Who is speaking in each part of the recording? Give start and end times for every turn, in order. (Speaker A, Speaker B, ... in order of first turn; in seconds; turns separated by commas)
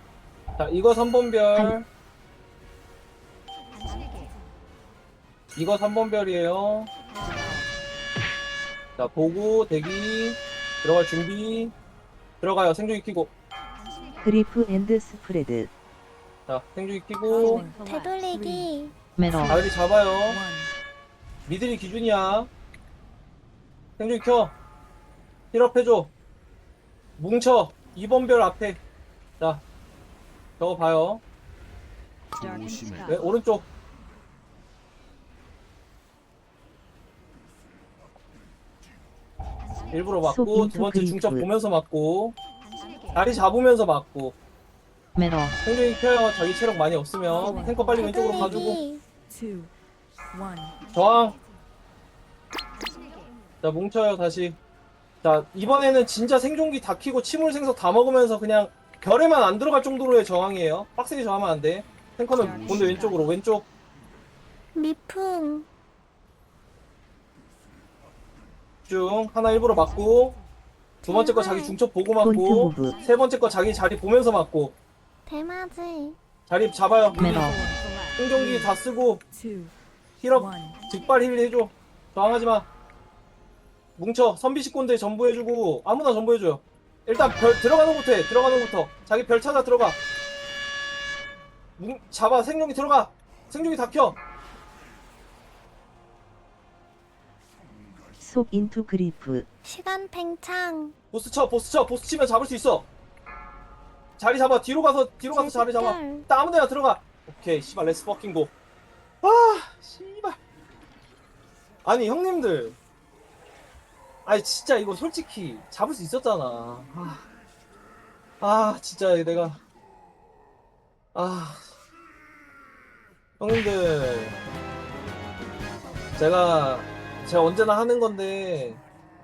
Speaker A: 0.6-1.9, Speaker A: 5.6-6.9, Speaker B: 7.2-7.7, Speaker A: 9.0-11.7, Speaker A: 12.4-13.3, Speaker C: 14.2-15.7, Speaker A: 16.5-17.7, Speaker B: 17.2-18.2, Speaker D: 17.4-18.7, Speaker E: 17.8-18.9, Speaker B: 19.2-19.6, Speaker D: 19.3-19.7, Speaker A: 19.5-20.4, Speaker D: 20.2-20.7, Speaker A: 21.5-22.5, Speaker A: 24.0-24.6, Speaker A: 25.5-26.1, Speaker A: 27.2-28.8, Speaker A: 29.4-29.6, Speaker A: 30.6-31.2, Speaker B: 32.4-33.2, Speaker A: 33.1-33.7, Speaker A: 39.9-42.4, Speaker C: 40.2-41.5, Speaker A: 43.1-44.4, Speaker B: 45.2-45.6, Speaker A: 45.6-48.8, Speaker D: 47.2-48.7, Speaker E: 47.9-49.1, Speaker D: 49.2-49.7, Speaker D: 50.3-50.9, Speaker A: 50.9-51.4, Speaker A: 53.6-54.6, Speaker A: 55.2-63.7, Speaker B: 62.3-63.3, Speaker E: 64.8-65.7, Speaker A: 68.9-70.4, Speaker A: 71.0-74.8, Speaker E: 71.0-71.8, Speaker C: 72.2-73.0, Speaker E: 75.3-76.2, Speaker A: 76.5-77.6, Speaker B: 77.2-78.2, Speaker D: 77.2-78.7, Speaker A: 78.2-79.2, Speaker D: 79.3-79.7, Speaker A: 80.2-82.7, Speaker D: 80.3-80.8, Speaker A: 84.0-90.0, Speaker A: 91.8-94.2, Speaker C: 98.2-99.5, Speaker E: 99.7-101.0, Speaker A: 101.1-102.9, Speaker A: 104.2-108.5, Speaker E: 105.3-106.3, Speaker A: 109.2-110.4, Speaker A: 111.8-112.8, Speaker A: 114.3-117.2, Speaker A: 118.4-119.6, Speaker A: 121.1-121.7, Speaker A: 123.4-124.4, Speaker A: 126.2-128.8